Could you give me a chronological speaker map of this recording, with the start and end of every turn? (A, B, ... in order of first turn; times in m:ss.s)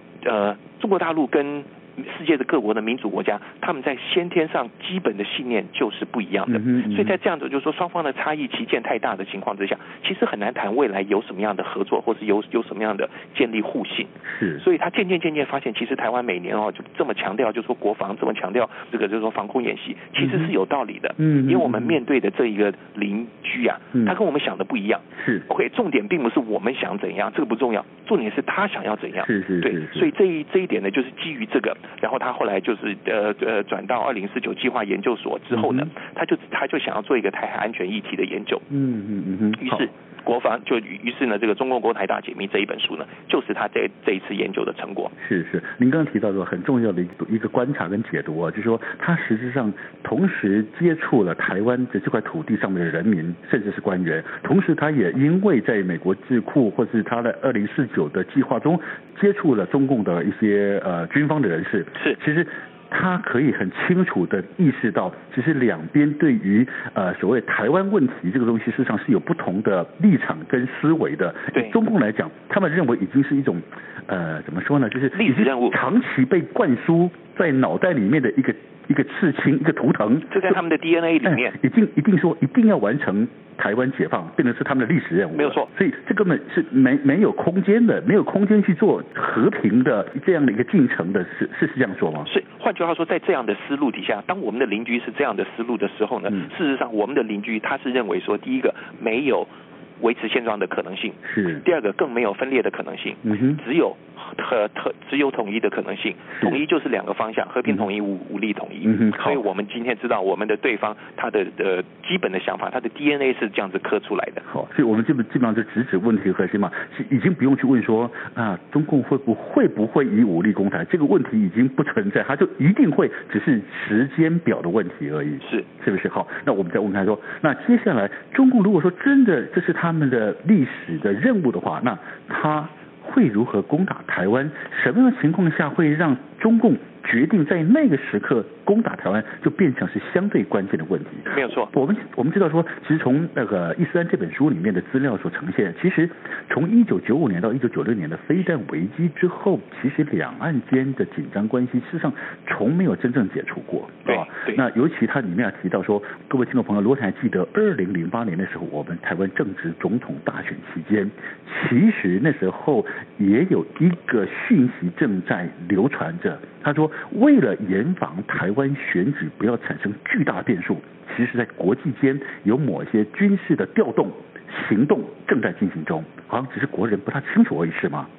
0:00.2-0:38.6 A
0:06.5-0:07.2 B
0:14.2-0:14.6 B
0:20.2-0:20.5 B
0:21.2-0:22.0 B
0:25.2-0:25.4 B
0:29.2-0:30.1 B
0:35.5-0:35.9 B
0:38.7-0:39.9 B
0:39.6-0:45.1 A
0:45.2-1:20.6 B
1:15.1-1:15.8 A
1:20.3-1:21.6 A
1:21.2-1:32.3 B
1:25.4-1:25.7 A
1:32.2-1:54.4 A
1:41.2-1:41.6 B
1:43.2-1:43.6 B
1:48.8-1:49.4 B
1:54.5-2:58.1 B
2:05.4-2:05.7 A
2:21.3-2:21.7 A
2:34.1-2:34.6 A